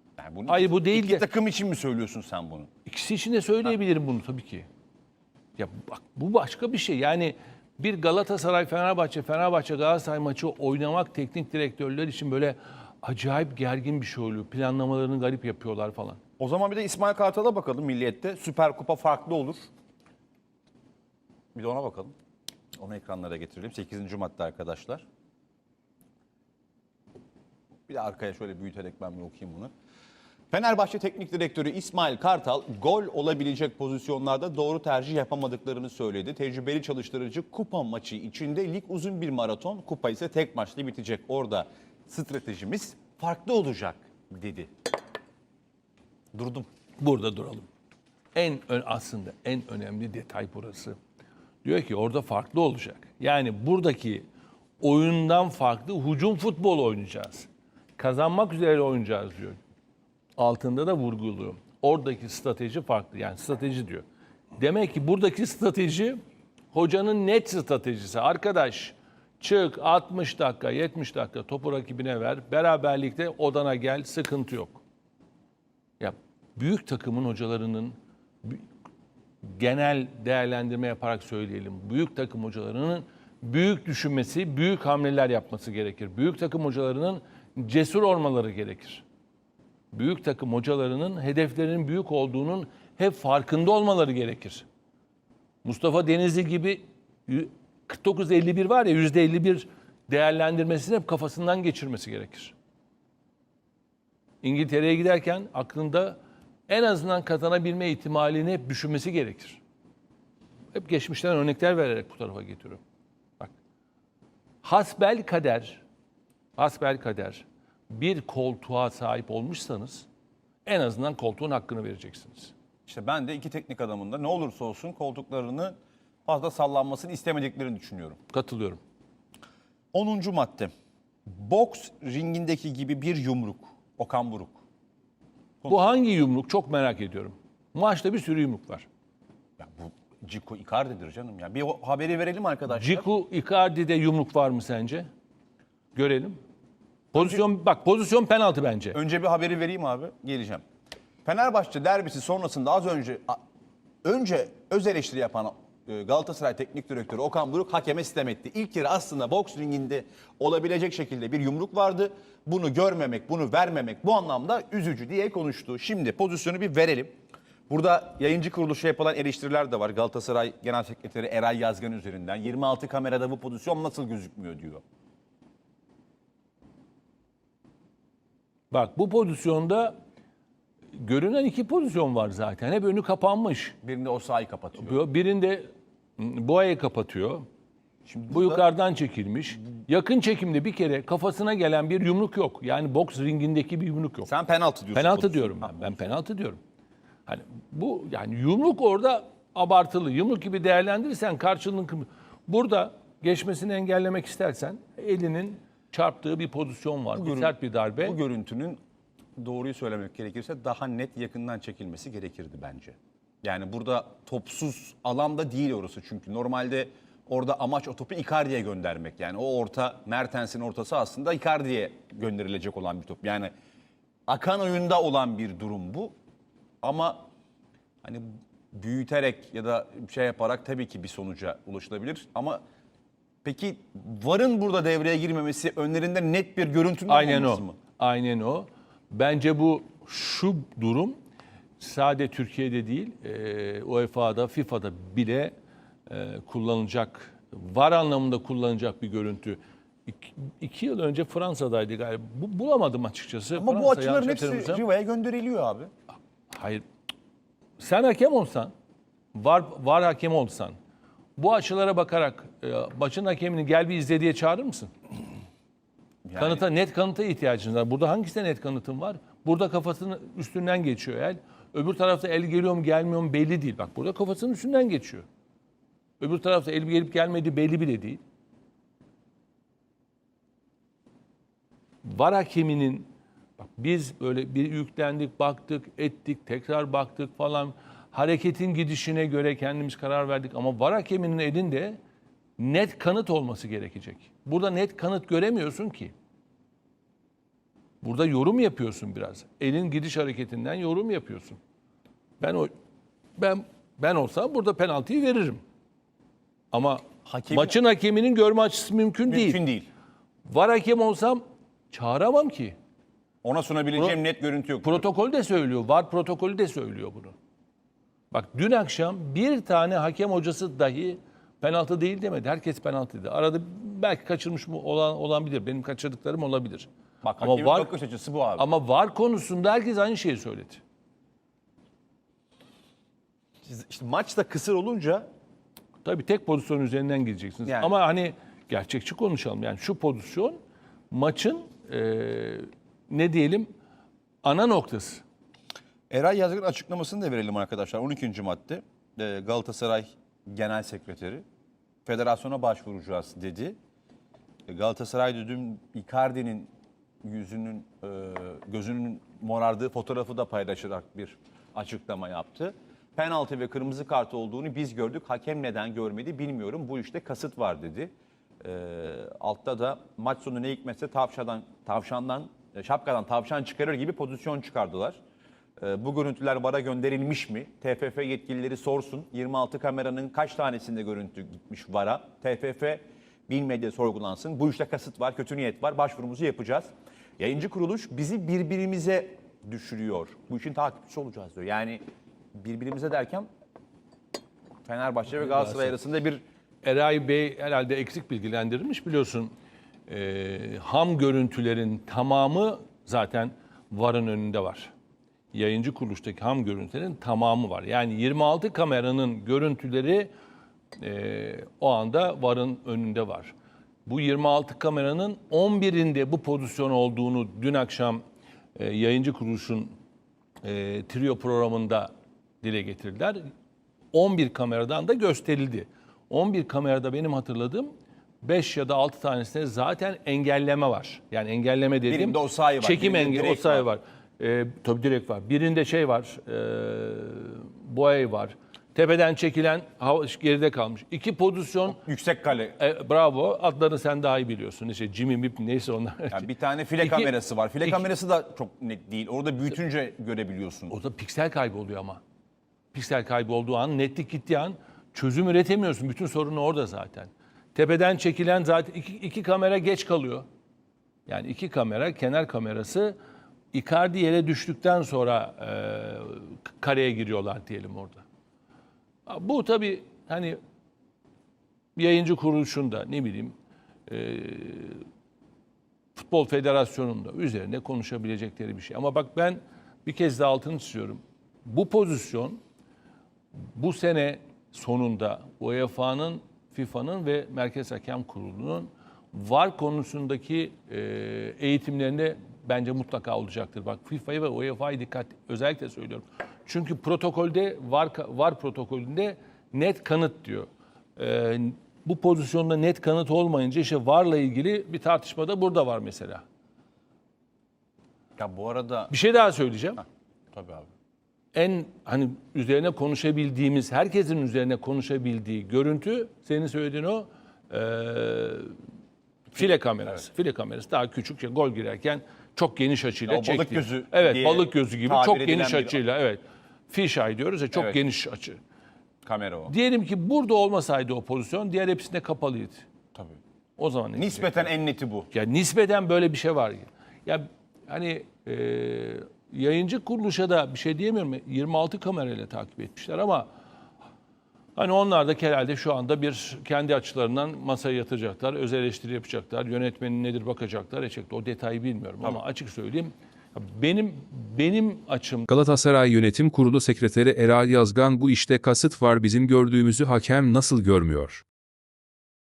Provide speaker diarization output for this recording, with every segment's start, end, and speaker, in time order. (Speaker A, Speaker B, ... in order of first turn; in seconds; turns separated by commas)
Speaker A: 0.2-2.7, Speaker B: 0.5-1.2, Speaker B: 2.9-4.7, Speaker B: 5.6-16.2, Speaker A: 16.4-19.7, Speaker A: 21.6-22.1, Speaker A: 22.8-25.1, Speaker A: 27.9-29.7, Speaker A: 30.5-44.7, Speaker A: 46.3-46.7, Speaker B: 47.0-47.7, Speaker B: 48.4-51.0, Speaker B: 51.6-54.2, Speaker B: 54.8-59.6, Speaker B: 60.4-64.0, Speaker B: 64.6-66.2, Speaker B: 66.7-74.8, Speaker B: 76.0-78.6, Speaker B: 79.4-89.0, Speaker B: 89.9-94.7, Speaker B: 95.7-102.5, Speaker B: 104.4-109.6, Speaker B: 110.8-112.8, Speaker B: 114.6-115.8, Speaker B: 116.6-120.1, Speaker B: 120.7-122.5, Speaker A: 122.9-128.2, Speaker B: 128.3-128.8, Speaker A: 129.9-130.7, Speaker A: 131.3-134.6, Speaker B: 135.7-138.9, Speaker A: 139.6-143.1, Speaker B: 142.7-145.1, Speaker B: 145.9-146.4, Speaker B: 147.1-149.0, Speaker A: 147.2-147.4, Speaker A: 148.9-150.6, Speaker A: 151.2-153.4, Speaker A: 154.0-167.2, Speaker A: 167.7-174.8, Speaker B: 178.7-179.9, Speaker B: 180.9-183.8, Speaker A: 183.8-185.0, Speaker B: 184.8-187.5, Speaker A: 188.1-188.7, Speaker B: 188.3-194.3, Speaker A: 194.3-196.2, Speaker B: 194.9-196.6, Speaker B: 197.3-208.2, Speaker A: 207.2-208.8, Speaker A: 209.4-223.5, Speaker A: 224.3-226.1, Speaker A: 226.8-227.3, Speaker A: 228.0-232.6, Speaker A: 233.4-237.8, Speaker B: 237.1-241.2, Speaker B: 241.8-245.5, Speaker B: 246.1-254.8, Speaker A: 253.6-255.9, Speaker B: 256.5-256.8, Speaker B: 257.8-258.7, Speaker B: 259.3-260.8, Speaker B: 261.4-264.9, Speaker A: 266.3-266.6, Speaker B: 266.4-275.2, Speaker B: 276.2-278.2, Speaker B: 282.1-283.1, Speaker B: 283.6-292.0, Speaker B: 292.6-296.1, Speaker B: 298.0-301.6, Speaker B: 302.4-302.7, Speaker B: 303.4-305.6, Speaker B: 306.7-309.6, Speaker A: 307.2-307.8, Speaker A: 309.3-309.9, Speaker B: 310.5-312.8, Speaker A: 313.4-315.0, Speaker B: 314.8-317.3, Speaker B: 318.3-326.9, Speaker A: 327.2-328.7, Speaker B: 327.4-327.9, Speaker B: 328.6-330.8, Speaker A: 333.7-335.3, Speaker B: 336.0-340.6, Speaker A: 337.7-338.0, Speaker B: 341.1-343.7, Speaker B: 344.4-345.2, Speaker A: 346.1-351.4, Speaker A: 352.1-353.8, Speaker A: 354.7-356.7, Speaker A: 357.2-375.2, Speaker A: 375.8-392.0, Speaker A: 392.6-393.5, Speaker A: 394.9-396.4, Speaker B: 395.3-396.0, Speaker B: 396.8-399.5, Speaker B: 400.1-404.9, Speaker B: 405.5-410.3, Speaker B: 411.0-413.5, Speaker B: 414.1-418.2, Speaker B: 418.8-419.9, Speaker B: 420.6-422.1, Speaker B: 422.6-423.4, Speaker B: 424.1-427.9, Speaker B: 428.4-442.0, Speaker A: 432.1-433.9, Speaker A: 441.9-442.8, Speaker B: 442.8-446.5, Speaker A: 446.3-450.9, Speaker B: 447.0-447.3, Speaker B: 450.9-452.2, Speaker B: 452.9-460.4, Speaker B: 461.3-463.2, Speaker B: 463.7-468.2, Speaker B: 469.3-470.6, Speaker B: 472.0-473.5, Speaker B: 474.1-475.1, Speaker B: 476.2-482.6, Speaker B: 483.7-506.4, Speaker A: 508.4-509.1, Speaker B: 509.1-510.0, Speaker A: 510.5-510.9, Speaker B: 511.6-518.8, Speaker B: 519.5-528.6, Speaker A: 523.3-526.0, Speaker A: 527.7-528.0, Speaker A: 529.2-529.7, Speaker B: 529.7-532.9, Speaker A: 533.1-533.4, Speaker B: 533.8-534.7, Speaker A: 534.1-535.3, Speaker B: 535.3-543.5, Speaker B: 544.8-555.5, Speaker C: 555.5-561.5